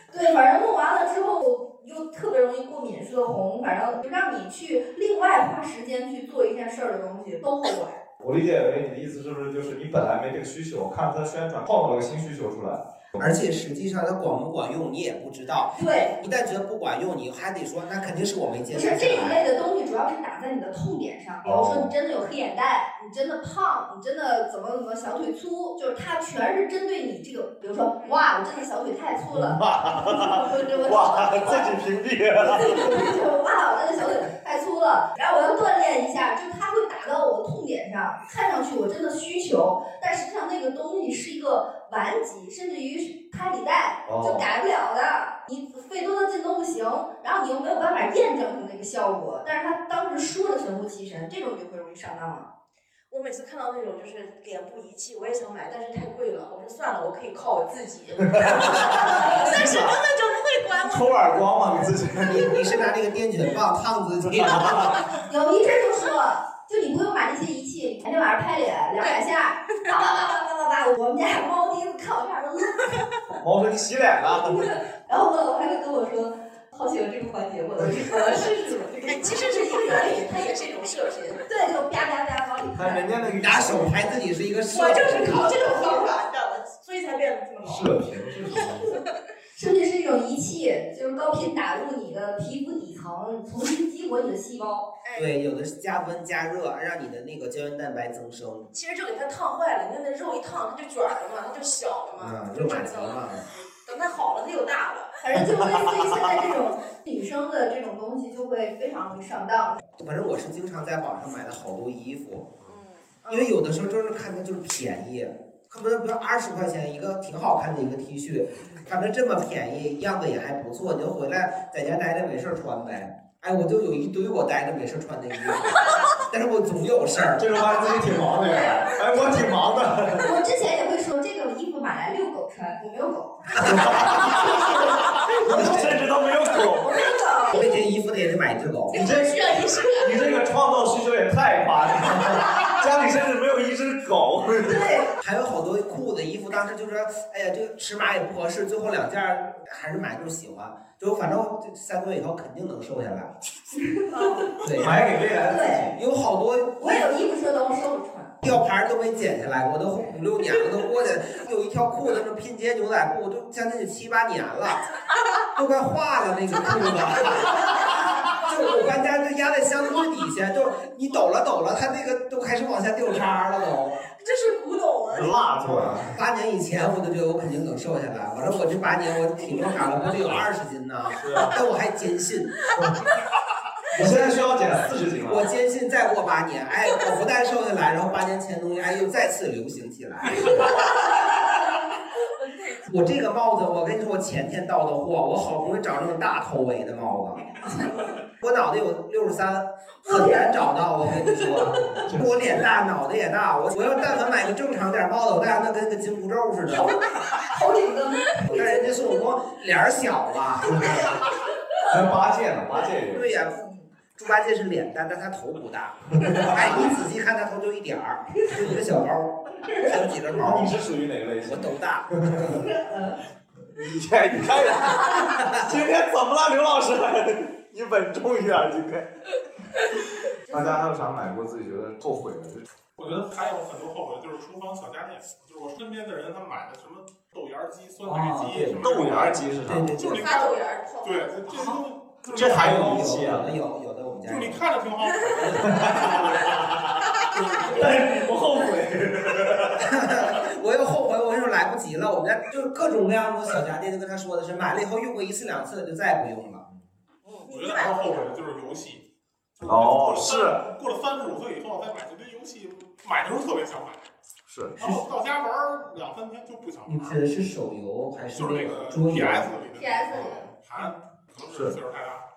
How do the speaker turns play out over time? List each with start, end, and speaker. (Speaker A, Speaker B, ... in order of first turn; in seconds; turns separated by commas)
Speaker A: 0.1-8.0, Speaker B: 8.2-13.3, Speaker C: 13.2-19.4, Speaker A: 15.8-16.2, Speaker A: 18.7-31.8, Speaker B: 21.4-21.9, Speaker D: 28.0-28.3, Speaker B: 29.3-33.1, Speaker A: 32.4-52.5, Speaker B: 44.1-44.5, Speaker D: 53.1-62.0, Speaker B: 58.3-60.0, Speaker B: 60.8-62.6, Speaker C: 62.2-65.1, Speaker B: 64.2-65.1, Speaker A: 65.2-73.0, Speaker D: 69.0-69.9, Speaker B: 73.4-74.7, Speaker A: 74.2-80.5, Speaker D: 78.2-78.5, Speaker D: 79.0-81.5, Speaker A: 81.5-83.3, Speaker B: 82.8-84.0, Speaker C: 83.3-85.5, Speaker D: 84.7-87.9, Speaker A: 85.4-86.1, Speaker B: 87.6-88.9, Speaker D: 88.5-89.1, Speaker A: 89.5-94.9, Speaker D: 95.0-95.4, Speaker C: 95.2-98.7, Speaker D: 98.7-105.2, Speaker C: 102.2-103.4, Speaker A: 105.2-109.8, Speaker C: 110.0-112.5, Speaker D: 112.6-113.6, Speaker C: 113.3-127.6, Speaker B: 127.4-130.4, Speaker A: 130.2-135.9, Speaker C: 133.6-134.2, Speaker B: 133.6-134.7, Speaker B: 135.3-137.0, Speaker C: 135.4-136.0, Speaker A: 136.8-137.7, Speaker C: 137.5-139.0, Speaker D: 138.9-140.3, Speaker B: 138.9-144.9, Speaker A: 144.6-145.1, Speaker C: 145.2-153.3, Speaker A: 153.7-154.6, Speaker D: 154.2-154.4, Speaker C: 154.6-155.1, Speaker B: 154.7-156.0, Speaker A: 155.3-155.9, Speaker C: 155.9-157.1, Speaker A: 156.8-158.3, Speaker C: 158.4-164.9, Speaker C: 165.6-174.0, Speaker D: 174.2-175.6, Speaker B: 175.1-176.2, Speaker C: 175.6-182.7, Speaker B: 181.1-181.6, Speaker B: 183.9-185.5, Speaker C: 183.9-184.6, Speaker C: 185.2-190.9, Speaker C: 192.8-197.6, Speaker A: 197.7-197.9, Speaker C: 198.4-207.0, Speaker A: 200.0-202.0, Speaker B: 201.9-202.3, Speaker A: 206.7-208.9, Speaker C: 208.5-211.1, Speaker B: 211.9-213.3, Speaker C: 213.1-213.6, Speaker A: 213.5-213.9, Speaker C: 214.2-220.8, Speaker B: 216.2-216.7, Speaker B: 220.4-222.6, Speaker C: 221.4-222.7, Speaker A: 222.6-223.2, Speaker B: 223.7-229.1, Speaker C: 225.2-225.6, Speaker A: 230.5-230.8, Speaker B: 230.5-232.7, Speaker E: 233.0-242.9, Speaker B: 238.1-240.0, Speaker C: 239.7-240.3, Speaker D: 240.1-241.4, Speaker B: 242.3-243.5, Speaker C: 242.3-244.6, Speaker E: 244.3-246.6, Speaker C: 245.4-246.1, Speaker B: 245.6-247.1, Speaker E: 247.3-248.1, Speaker B: 247.7-249.9, Speaker C: 249.8-256.6, Speaker D: 257.2-258.4, Speaker E: 257.4-259.0, Speaker E: 259.6-264.1, Speaker B: 259.6-260.6, Speaker B: 264.5-264.8, Speaker E: 264.8-267.2, Speaker C: 266.9-269.5, Speaker E: 268.3-272.2, Speaker A: 269.7-270.5